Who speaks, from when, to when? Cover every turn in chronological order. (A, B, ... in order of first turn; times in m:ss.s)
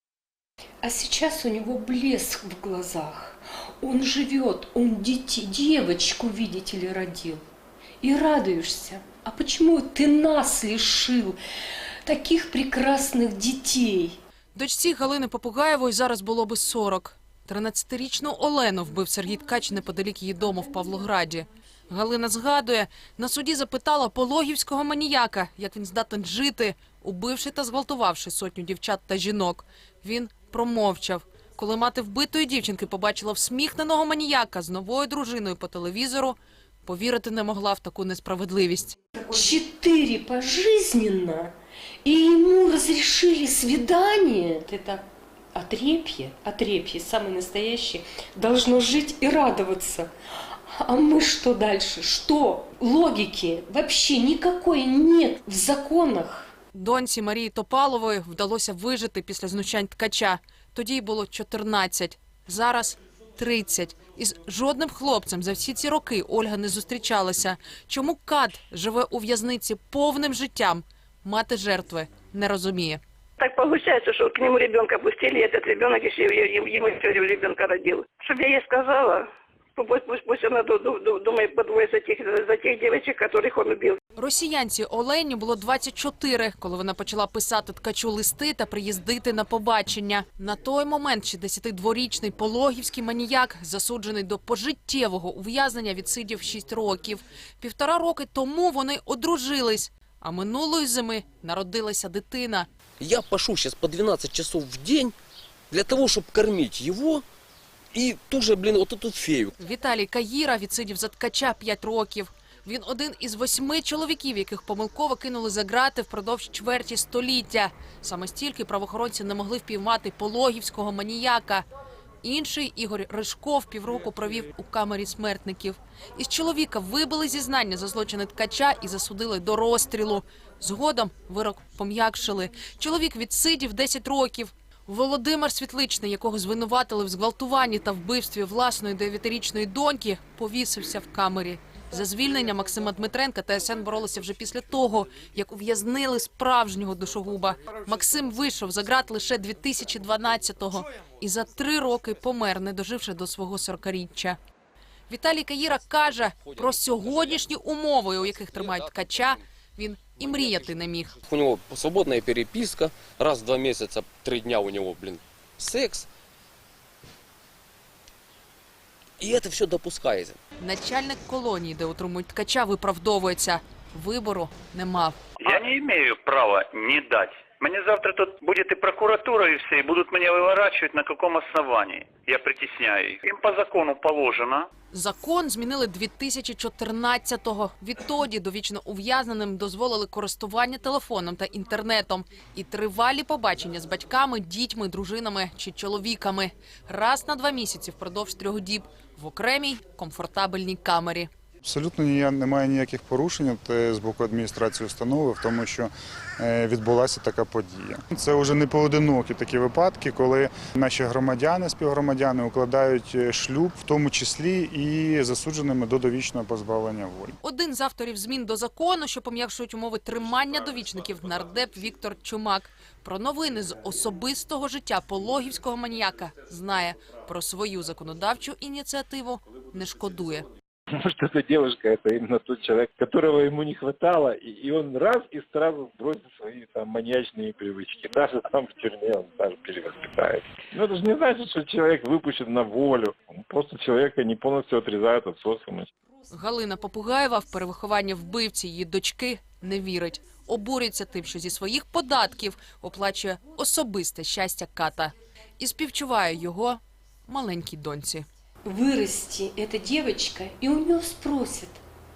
0:00.8-0:07.4 A
0:08.0-0:14.2 A
0:14.5-0:39.0 B
0:39.2-0:56.5 A
0:56.7-1:13.0 B
1:13.4-1:24.0 C
1:24.2-1:42.7 B
1:43.0-1:45.1 D
1:45.7-1:47.2 D
1:47.9-1:49.5 D
1:49.6-2:01.6 B
2:02.2-2:34.4 B
2:35.1-2:41.1 B
2:35.9-2:37.5 D
2:38.2-2:39.4 D
2:40.2-2:46.1 D
2:49.2-2:50.4 D
2:50.6-2:55.5 B
2:55.4-3:04.7 E
3:04.9-3:21.3 B
3:21.6-3:37.4 F
3:37.4-3:50.4 B
3:51.0-4:05.9 G
4:06.3-4:18.2 B
4:18.6-4:21.8 A